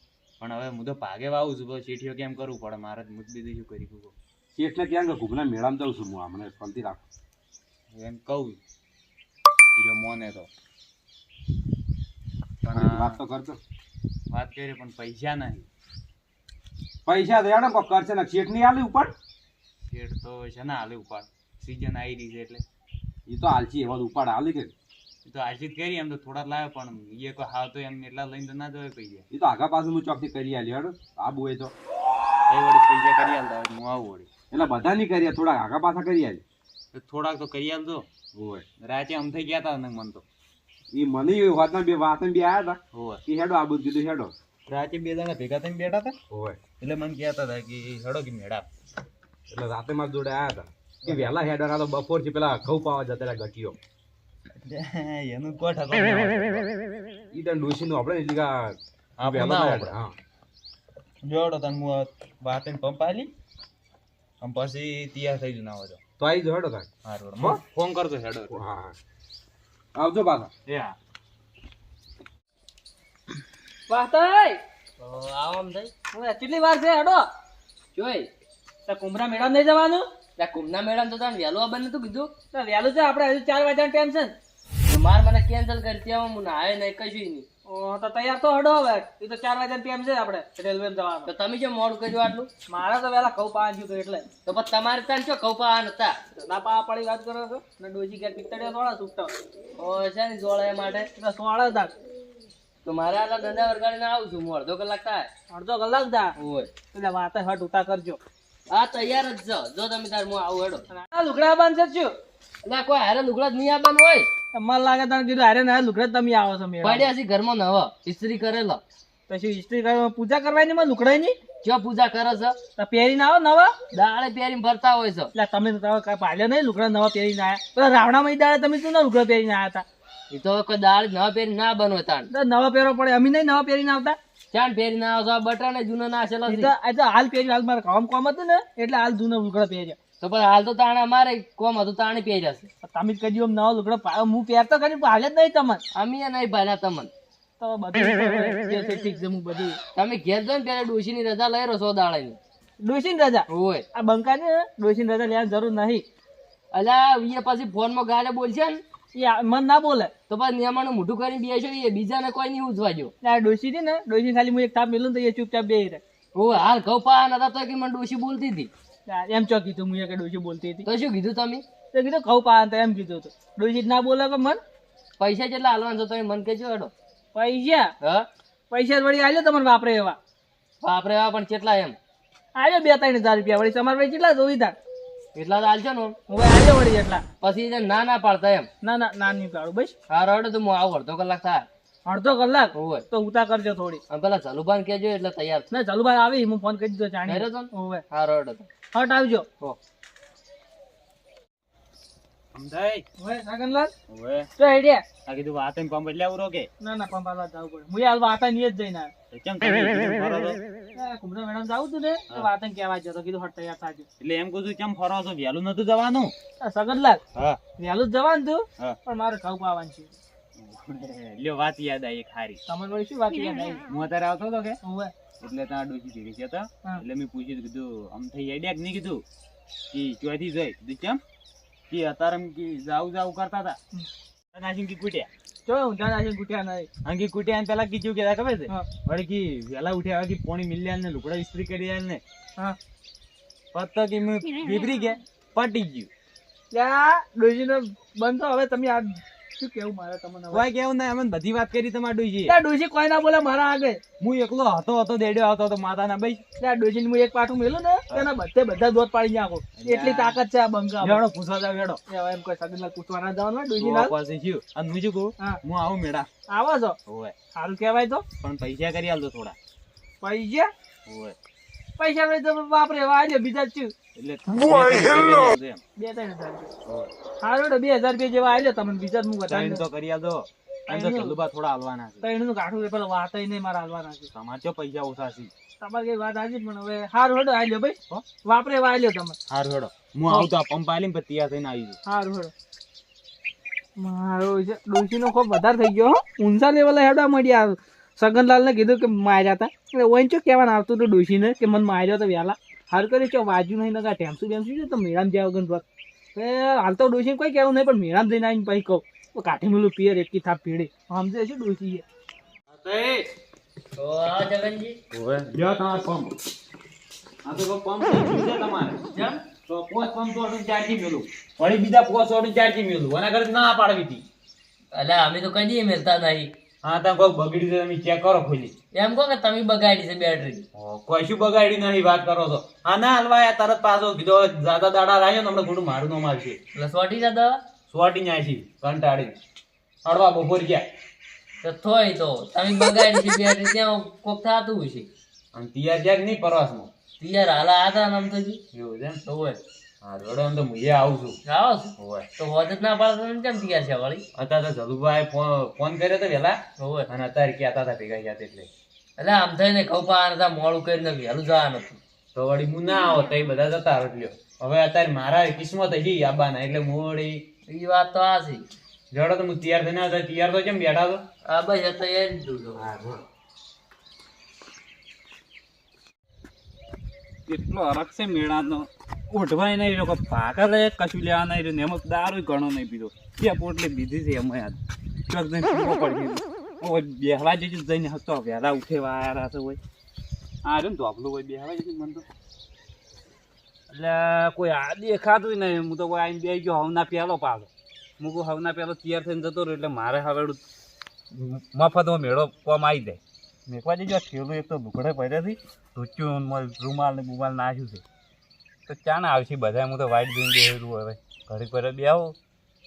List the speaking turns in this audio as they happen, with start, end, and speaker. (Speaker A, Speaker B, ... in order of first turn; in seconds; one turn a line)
Speaker A: 0.4-4.1
Speaker B: 4.5-7.0
Speaker A: 7.9-8.6
Speaker A: 9.8-10.5
Speaker A: 12.7-13.2
Speaker B: 12.7-13.6
Speaker A: 14.3-15.7
Speaker B: 17.1-19.1
Speaker A: 19.9-22.6
Speaker B: 23.3-24.7
Speaker A: 25.2-29.3
Speaker B: 29.3-31.7
Speaker A: 32.5-34.3
Speaker B: 34.5-36.4
Speaker A: 36.9-38.1
Speaker B: 38.4-38.6
Speaker A: 38.8-40.2
Speaker B: 40.9-44.3
Speaker A: 42.9-43.2
Speaker A: 44.7-46.1
Speaker B: 46.3-46.6
Speaker A: 46.8-48.7
Speaker B: 49.5-53.8
Speaker A: 51.0-51.4
Speaker A: 54.6-56.8
Speaker B: 57.3-60.1
Speaker A: 59.2-60.0
Speaker A: 61.2-63.3
Speaker A: 64.4-66.0
Speaker B: 66.2-66.9
Speaker A: 67.0-68.6
Speaker B: 68.5-69.0
Speaker B: 70.0-70.5
Speaker A: 70.7-71.0
Speaker C: 73.9-74.6
Speaker D: 75.0-75.9
Speaker C: 76.1-77.3
Speaker D: 78.0-78.3
Speaker C: 78.9-80.0
Speaker D: 80.4-82.3
Speaker C: 82.5-84.3
Speaker D: 84.9-87.5
Speaker C: 87.7-91.3
Speaker D: 91.3-92.5
Speaker C: 92.7-94.2
Speaker D: 94.5-96.2
Speaker C: 96.4-99.3
Speaker D: 99.8-101.1
Speaker C: 101.2-101.9
Speaker D: 102.8-105.3
Speaker C: 105.5-106.3
Speaker D: 106.4-106.7
Speaker C: 106.9-108.2
Speaker D: 108.7-110.9
Speaker C: 110.9-112.1
Speaker D: 112.7-114.3
Speaker C: 114.5-117.1
Speaker D: 116.8-118.8
Speaker C: 119.3-121.4
Speaker D: 121.6-122.6
Speaker C: 122.8-123.7
Speaker D: 123.9-125.3
Speaker C: 125.3-129.8
Speaker D: 130.3-132.3
Speaker C: 132.3-134.2
Speaker D: 134.5-136.7
Speaker C: 136.5-140.0
Speaker D: 140.2-142.7
Speaker C: 142.8-145.8
Speaker D: 146.0-147.1
Speaker C: 147.6-149.8
Speaker D: 149.9-152.4
Speaker C: 152.8-156.1
Speaker D: 153.5-153.9
Speaker D: 156.7-158.8
Speaker C: 159.1-160.1
Speaker D: 160.3-163.1
Speaker C: 163.2-166.0
Speaker D: 166.3-168.7
Speaker C: 169.1-170.8
Speaker D: 170.8-171.7
Speaker C: 171.9-174.6
Speaker D: 175.2-176.9
Speaker C: 177.3-177.9
Speaker C: 178.7-180.2
Speaker D: 180.8-182.0
Speaker C: 182.6-184.8
Speaker D: 185.3-186.2
Speaker C: 186.3-187.2
Speaker D: 187.4-188.7
Speaker C: 188.8-189.9
Speaker D: 190.1-191.7
Speaker C: 192.1-194.0
Speaker D: 192.8-193.1
Speaker D: 194.1-195.7
Speaker C: 195.7-198.0
Speaker D: 197.3-198.7
Speaker C: 198.9-199.4
Speaker A: 202.5-203.0
Speaker C: 203.2-203.9
Speaker A: 204.1-204.5
Speaker C: 204.6-205.1
Speaker A: 205.2-206.7
Speaker C: 206.8-209.1
Speaker A: 209.3-210.6
Speaker C: 210.9-214.1
Speaker A: 214.2-216.3
Speaker C: 216.6-217.2
Speaker C: 217.8-220.1
Speaker A: 220.6-222.6
Speaker C: 222.7-223.8
Speaker A: 223.9-224.8
Speaker C: 224.8-225.1
Speaker A: 225.4-229.2
Speaker A: 229.9-231.2
Speaker A: 231.9-233.8
Speaker A: 234.5-235.3
Speaker C: 235.7-236.9
Speaker A: 237.1-242.2
Speaker A: 243.7-246.1
Speaker C: 246.7-250.7
Speaker A: 250.5-252.6
Speaker C: 252.5-254.0
Speaker A: 254.2-256.4
Speaker C: 256.6-261.2
Speaker A: 259.8-260.4
Speaker A: 261.0-262.0
Speaker C: 262.1-264.1
Speaker A: 263.8-266.3
Speaker C: 266.5-267.0
Speaker A: 267.1-267.3
Speaker C: 267.5-268.2
Speaker A: 268.4-269.6
Speaker C: 270.2-270.7
Speaker A: 271.1-271.4
Speaker C: 272.0-273.9
Speaker A: 274.2-275.8
Speaker C: 276.0-276.7
Speaker C: 277.4-279.8
Speaker A: 279.5-282.3
Speaker C: 280.9-281.4
Speaker C: 282.2-284.3
Speaker A: 284.3-285.5
Speaker C: 285.8-289.4
Speaker A: 289.5-292.0
Speaker C: 292.1-292.5
Speaker C: 294.0-305.8
Speaker C: 306.4-312.1
Speaker A: 312.7-313.3
Speaker D: 314.0-315.0
Speaker A: 315.1-316.4
Speaker A: 317.4-319.0
Speaker D: 319.1-319.4
Speaker A: 319.7-324.2
Speaker D: 324.9-326.5
Speaker A: 326.8-328.7
Speaker D: 328.9-330.6
Speaker A: 330.7-336.6
Speaker D: 336.7-337.6
Speaker A: 337.9-339.4
Speaker A: 340.0-340.9
Speaker D: 341.6-345.1
Speaker A: 345.5-346.9
Speaker D: 347.2-348.6
Speaker A: 348.7-349.2
Speaker D: 349.3-349.6
Speaker A: 350.0-351.4
Speaker D: 351.5-354.2
Speaker A: 352.0-352.3
Speaker A: 354.4-358.7
Speaker D: 356.8-357.1
Speaker D: 359.2-362.0
Speaker A: 362.4-367.4
Speaker D: 367.7-368.7
Speaker A: 369.1-371.2
Speaker D: 371.5-372.9
Speaker E: 377.5-384.8
Speaker E: 385.3-389.8
Speaker E: 390.6-392.2
Speaker E: 393.9-400.6
Speaker E: 401.4-408.0
Speaker E: 408.9-412.4